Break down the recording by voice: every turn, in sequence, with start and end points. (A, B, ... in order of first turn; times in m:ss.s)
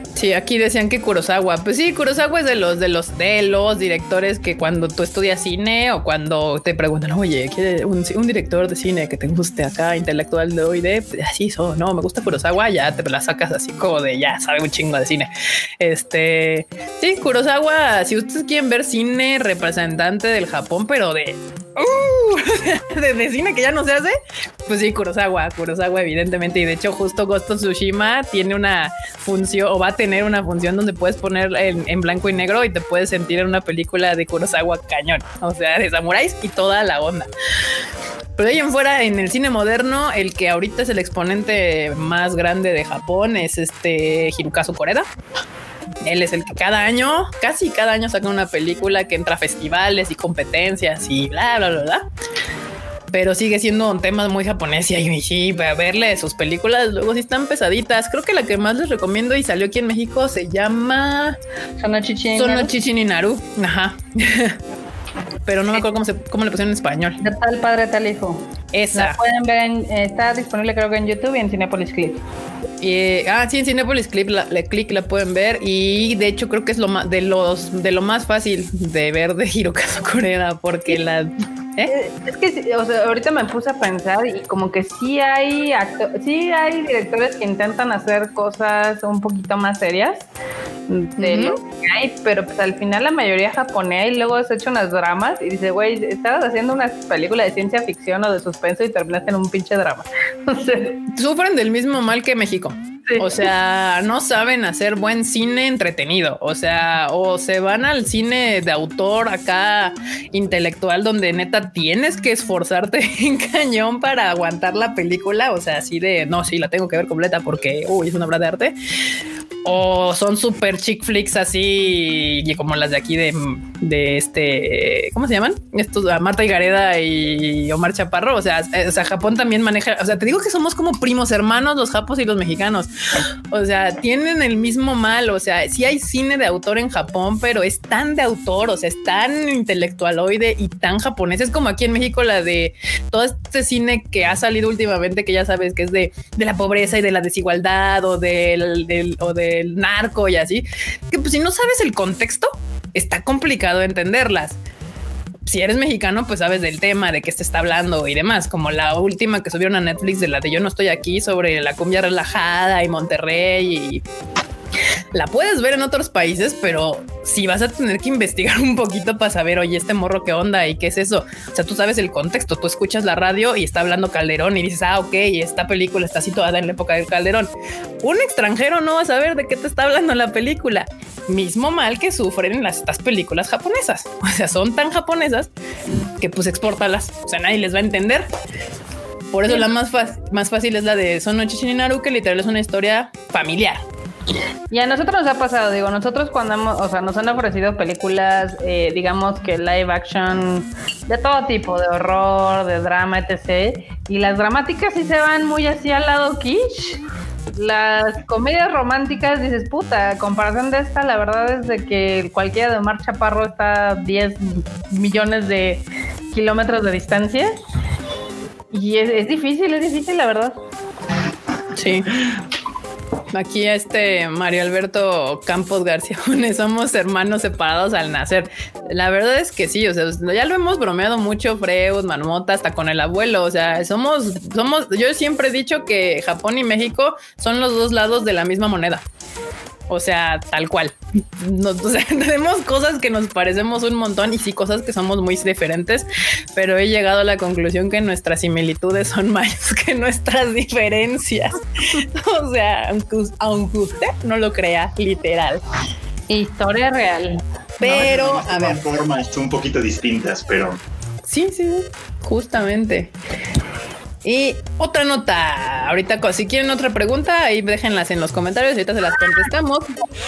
0:00.1-0:24.1 A
0:24.7-0:37.3 A
0:38.4-0:45.1 A
0:46.0-0:52.0 A
0:53.1-1:01.4 A
1:01.8-1:02.7 B
1:02.3-1:04.6 A
1:05.4-1:07.2 A
1:07.2-1:08.4 B
1:08.7-1:09.2 A
1:08.9-1:12.2 B
1:12.8-1:21.9 A
1:21.8-1:30.2 B
1:30.9-1:41.0 B
1:31.2-1:31.6 A
1:41.1-1:58.8 A
1:43.1-1:43.3 B
1:59.6-2:12.9 A
2:13.5-2:34.6 A
2:35.4-2:44.0 A
2:45.1-2:57.5 A
2:58.0-3:05.5 A
3:06.2-3:08.3 A
3:09.3-3:13.8 A
3:14.7-3:27.0 B
3:27.5-3:37.5 B
3:38.7-3:40.6 B
3:41.8-3:42.1 A
3:43.3-3:59.0 A
3:59.9-4:15.6 A
4:16.3-4:17.4 B
4:17.8-4:18.8 A
4:17.8-4:20.8 C
4:21.2-4:23.1 A
4:24.2-4:30.0 A